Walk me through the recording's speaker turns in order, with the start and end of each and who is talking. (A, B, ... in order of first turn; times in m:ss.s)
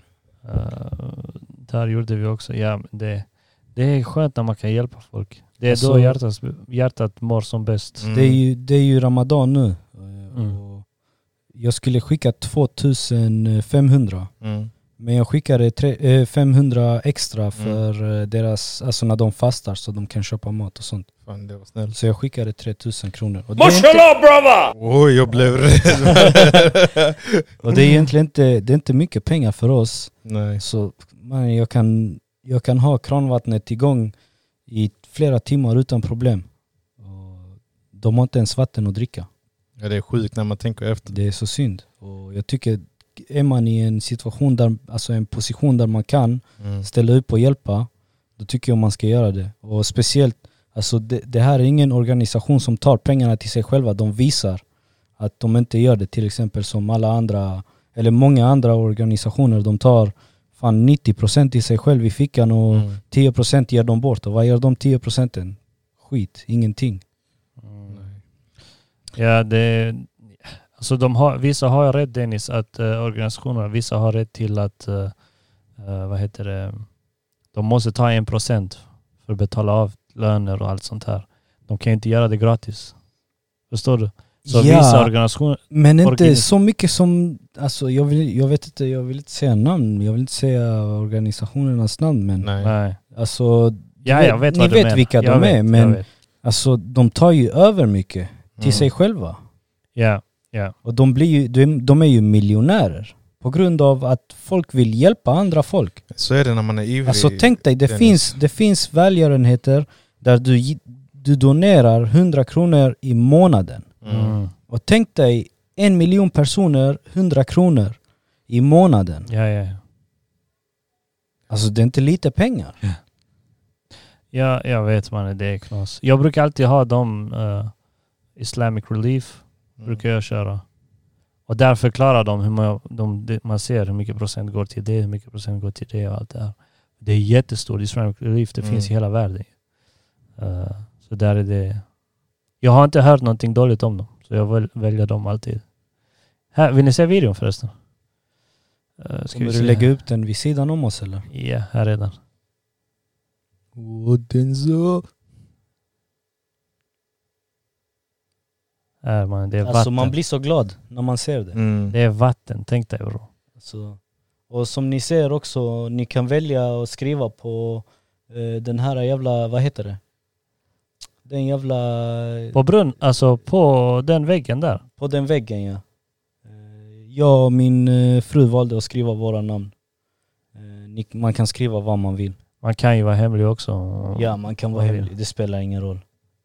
0:00.4-0:08.1 A
0:05.6-0:06.2 B
0:08.0-0:08.4 C
0:08.1-0:10.9 B
0:10.3-0:10.6 A
0:11.5-0:14.3 B
0:14.4-0:14.7 C
0:15.0-0:21.1 B
0:21.3-0:22.0 C
0:21.9-0:24.4 B
0:24.7-0:27.4 C
0:26.0-0:26.4 B
0:27.6-0:34.2 B
0:30.2-0:30.6 C
0:34.7-0:39.3 B
0:39.8-0:41.2 C
0:41.1-0:54.6 B
0:46.6-0:46.9 C
0:55.2-1:07.0 B
1:02.7-1:03.0 C
1:07.6-1:08.1 A
1:09.2-1:15.2 A
1:15.8-1:16.9 A
1:17.5-1:23.0 A
1:23.7-1:26.5 A
1:24.4-1:25.1 B
1:25.7-1:32.5 B
1:32.4-1:32.8 C
1:32.6-1:33.0 A
1:33.0-1:39.4 B
1:34.0-1:36.0 A
1:38.6-1:38.9 C
1:40.0-1:40.7 A
1:40.8-1:46.0 B
1:46.1-1:48.4 C
1:47.0-1:53.9 B
1:54.0-1:54.4 C
1:54.1-1:54.5 A
1:54.7-1:59.3 B
1:59.3-1:59.8 A
2:01.5-2:02.8 B
2:04.3-2:07.8 A
2:08.3-2:10.6 A
2:09.8-2:10.0 C
2:11.5-2:19.6 A
2:18.6-2:18.9 C
2:20.4-2:21.9 A
2:22.6-2:25.7 A
2:26.5-2:27.7 A
2:29.0-2:30.0 A
2:29.3-2:31.3 B
2:31.3-2:32.2 A
2:33.8-2:35.0 C
2:39.0-2:40.2 A
2:39.6-2:41.6 B
2:41.5-2:42.0 C
2:41.9-2:43.3 A
2:43.6-2:50.0 B
2:51.2-2:52.6 B
2:52.5-2:54.8 A
2:55.0-2:55.8 B
2:56.4-2:59.8 B
3:00.6-3:02.4 B
3:02.6-3:05.1 A
3:04.2-3:06.0 B